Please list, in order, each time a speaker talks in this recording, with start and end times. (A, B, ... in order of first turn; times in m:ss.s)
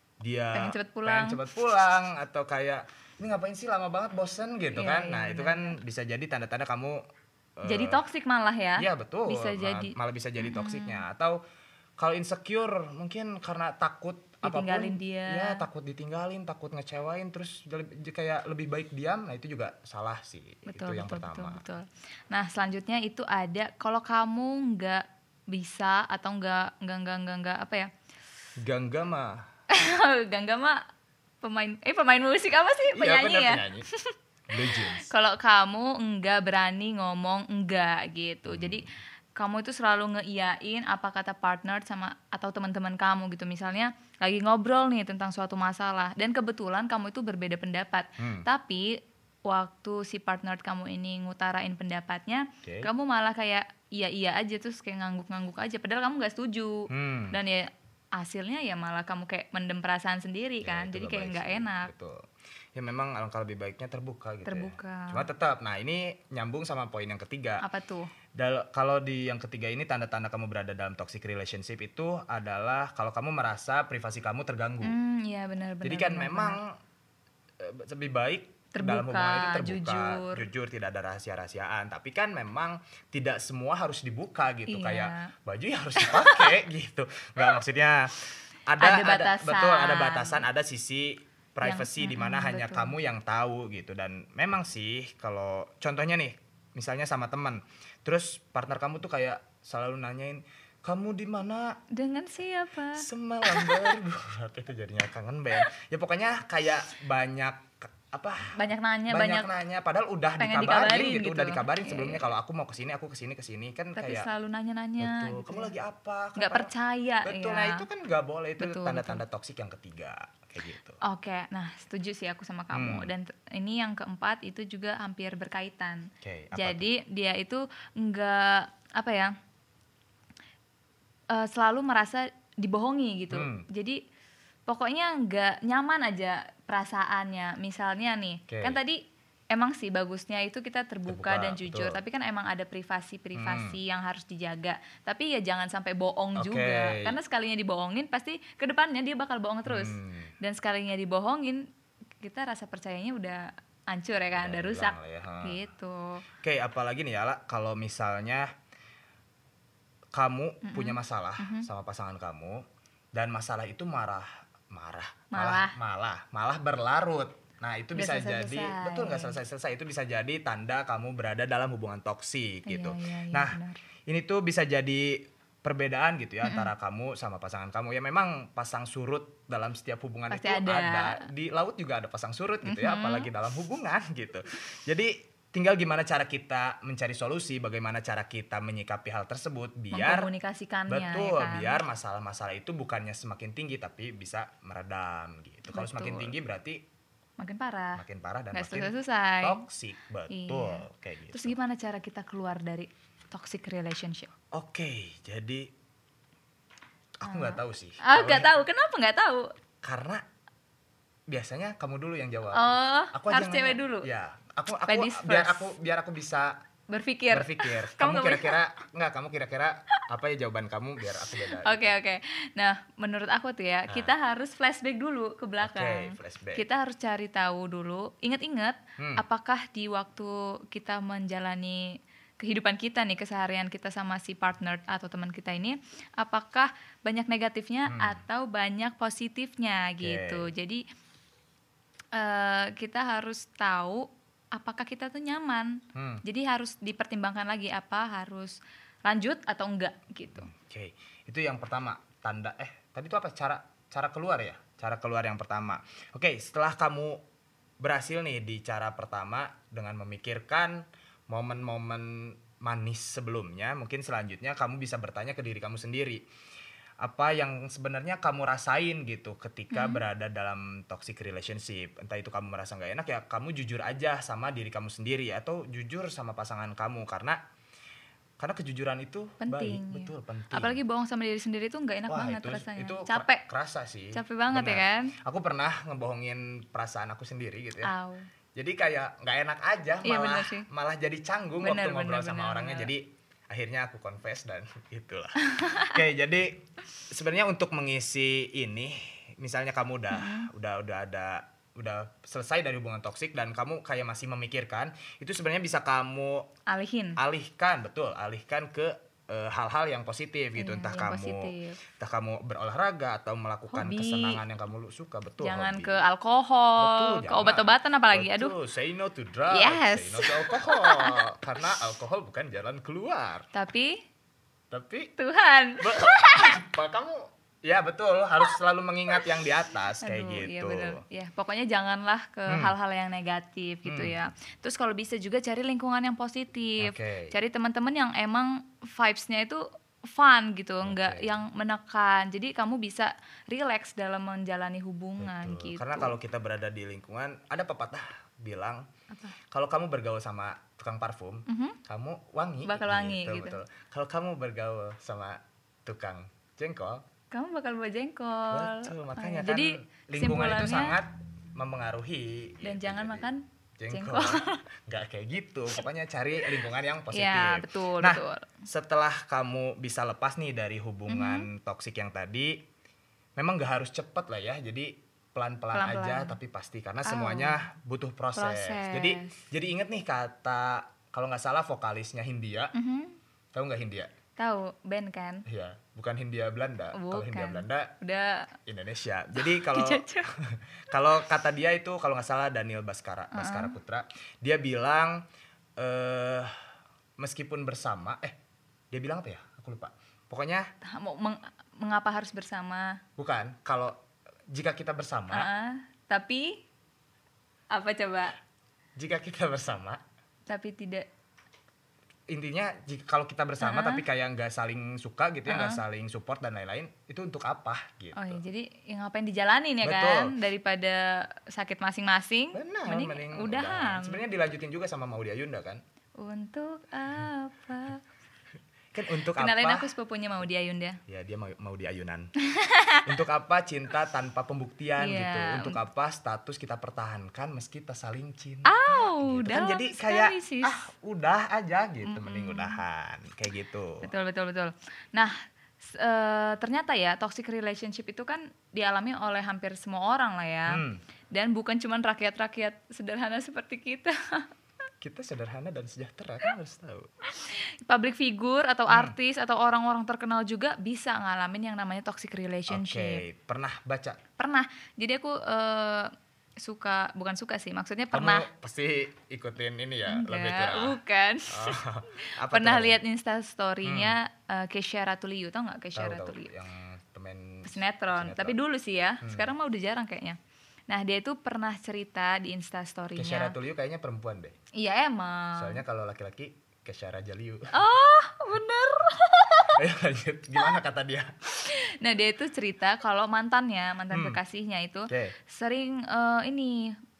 0:00.2-0:07.0 A
0:00.5-0:01.4 B
0:04.7-0:05.8 B
0:07.6-0:08.0 A
0:07.6-0:11.0 B
0:08.8-0:11.4 A
0:12.0-0:21.7 A
0:14.4-0:15.6 B
0:20.7-0:27.9 B
0:28.6-0:29.4 A
0:29.7-0:30.8 B
0:31.4-0:34.1 B
0:32.9-0:33.9 A
0:34.5-0:35.1 A
0:34.7-1:01.9 B
0:38.5-0:38.9 A
0:48.2-0:48.5 A
0:52.6-0:52.9 A
0:56.9-0:57.4 A
1:00.6-1:07.6 A
1:04.4-1:05.3 B
1:07.6-1:08.1 B
1:08.3-1:15.0 A
1:14.8-1:16.6 B
1:15.8-1:16.8 A
1:17.6-1:41.8 A
1:18.7-1:20.5 B
1:24.7-1:25.3 B
1:26.0-1:26.6 B
1:28.8-1:30.4 B
1:31.6-1:32.9 B
1:41.9-1:43.9 B
1:43.0-1:54.3 A
1:48.6-1:49.5 B
1:50.4-1:52.3 B
1:54.0-1:55.7 B
1:55.0-1:56.7 A
1:56.4-1:57.8 B
1:57.2-2:01.0 A
1:58.6-1:59.2 B
2:01.0-2:09.3 B
2:02.7-2:03.1 A
2:06.2-2:06.9 A
2:11.3-2:14.0 B
2:13.3-2:13.7 A
2:14.7-2:19.0 B
2:18.5-2:18.8 A
2:19.5-2:31.7 B
2:21.1-2:22.0 A
2:23.3-2:23.8 A
2:26.4-2:27.2 A
2:29.6-2:30.3 A
2:32.2-2:36.2 B
2:34.3-2:35.6 A
2:36.4-2:38.5 A
2:40.1-2:42.6 A
2:40.6-2:41.6 B
2:43.1-3:10.3 A
2:45.3-2:45.8 B
2:47.9-2:49.4 B
2:52.6-2:53.8 B
2:56.4-2:56.7 B
3:00.3-3:01.3 B
3:02.6-3:03.3 B
3:09.9-3:11.8 B
3:10.9-3:16.8 A
3:15.7-3:16.3 B
3:17.4-3:19.6 B
3:18.0-3:21.6 A
3:20.3-3:24.3 B
3:24.5-3:25.7 A
3:27.2-3:28.5 A
3:27.2-3:29.5 B
3:29.8-3:30.2 A
3:31.3-3:36.6 A
3:32.5-3:34.1 B
3:34.9-3:35.7 B
3:36.9-3:38.6 B
3:37.3-3:41.9 A
3:41.4-4:00.8 B
3:43.9-3:44.1 A
3:45.6-3:46.6 A
3:49.0-3:49.2 A
3:57.9-3:58.2 A
4:00.0-4:00.5 A
4:02.1-4:10.5 B
4:05.9-4:06.2 A
4:10.4-4:17.2 A
4:17.8-4:26.2 A
4:27.0-4:37.4 A
4:29.7-4:30.0 B
4:38.4-4:40.8 A
4:39.4-4:43.4 B
4:42.1-4:47.9 A
4:44.1-4:45.1 B
4:47.8-4:48.3 B
4:48.6-5:06.5 A
4:50.0-4:50.6 B
4:51.6-4:52.9 B
4:55.5-4:56.0 B
5:00.1-5:00.5 B
5:06.7-5:07.2 B
5:07.2-5:16.0 A
5:10.6-5:11.8 B
5:13.7-5:14.4 B
5:15.4-5:18.5 B
5:16.8-5:23.5 A
5:19.5-5:21.2 B
5:23.5-5:24.0 B
5:24.7-5:25.1 A
5:25.2-5:26.6 B
5:25.8-5:31.0 A
5:30.0-5:46.1 B
5:32.5-5:32.7 A
5:33.8-5:34.2 A
5:36.8-5:37.3 A
5:40.8-5:41.4 A
5:45.2-5:48.8 A
5:49.5-5:57.0 A
5:51.5-5:51.8 B
5:52.6-5:53.6 B
5:57.3-6:01.0 B
5:58.5-6:12.6 A
6:02.6-6:04.6 B
6:07.1-6:08.4 B
6:11.1-6:11.5 B
6:13.4-6:22.7 A
6:15.7-6:16.4 B
6:17.0-6:17.6 B
6:18.3-6:19.4 B
6:22.7-6:23.2 B
6:23.5-6:24.1 A
6:24.4-6:25.4 B
6:25.5-6:27.9 A
6:26.9-6:28.5 B
6:28.7-6:35.2 A
6:29.4-6:30.3 B
6:33.3-6:33.8 B
6:35.8-6:36.5 A
6:37.2-6:38.4 A
6:38.9-6:40.7 A
6:40.9-6:43.0 B
6:43.2-6:44.0 A
6:44.5-6:45.5 A
6:45.3-6:46.6 B
6:47.7-6:48.4 B
6:49.0-6:50.0 A
6:50.5-6:51.1 B
6:52.3-6:58.4 A
6:53.6-6:54.0 B
6:55.4-6:55.8 B
6:58.1-7:04.2 B
6:59.8-7:00.4 A
7:02.5-7:05.8 A
7:06.2-7:08.0 B
7:08.9-7:09.9 A
7:09.4-7:11.0 B
7:11.1-7:12.3 A
7:12.5-7:13.0 B
7:13.0-7:24.1 A
7:15.0-7:15.8 B
7:18.6-7:20.9 B
7:22.0-7:22.8 B
7:24.0-7:34.5 B
7:30.7-7:31.0 A
7:35.0-7:37.1 A
7:37.3-7:43.2 B
7:38.9-7:39.2 A
7:42.7-7:44.2 A
7:44.4-7:46.1 B
7:46.6-7:48.5 B
7:48.1-7:51.0 A
7:50.0-7:56.5 B
7:51.5-7:53.0 A
7:53.8-7:54.2 A
7:55.9-7:58.6 A
7:57.6-8:00.4 B
7:59.2-7:59.5 A
8:00.9-8:03.6 B
8:03.2-8:04.5 A
8:04.7-8:05.8 B
8:05.6-8:07.8 A
8:07.7-8:09.8 B
8:09.7-8:11.3 A
8:11.6-8:16.9 B
8:14.1-8:14.4 A
8:15.1-8:15.3 A